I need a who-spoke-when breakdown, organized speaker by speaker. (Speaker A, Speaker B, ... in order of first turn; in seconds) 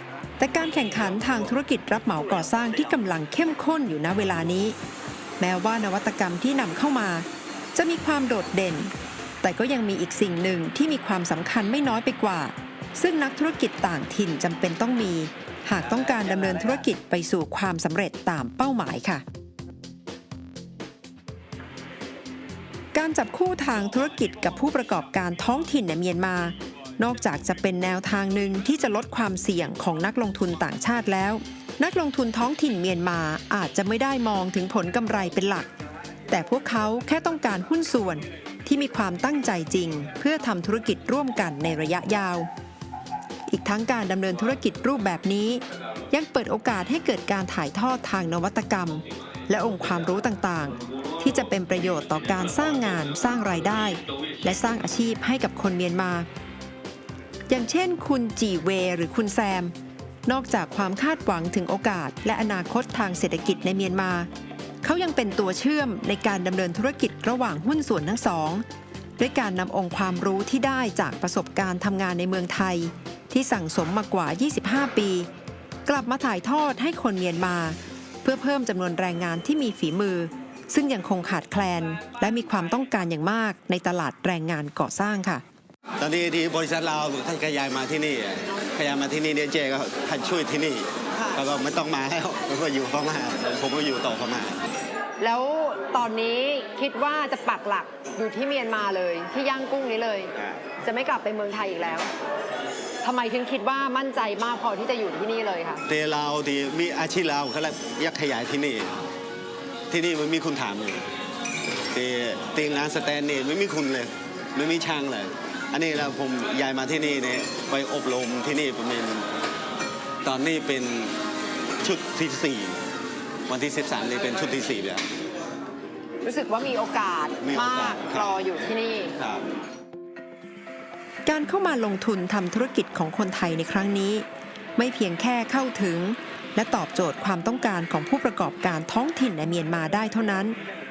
Speaker A: 0.4-4.8, 5.4-8.9, 9.4-19.2, 22.9-35.7, 36.3-42.5, 43.5-56.3, 57.5-59.7, 60.2-64.3, 64.8-68.6, 69.2-75.3, 75.8-85.4, 131.2-134.2, 134.8-140.6
Speaker B: 86.0-94.6, 100.3-100.6, 105.9-109.0, 109.9-111.1, 111.9-119.3, 120.2-121.2, 121.8-122.8, 123.5-125.0, 127.4-128.3, 129.2-129.4
Speaker C: 95.2-102.1, 103.0-105.8, 126.2-129.2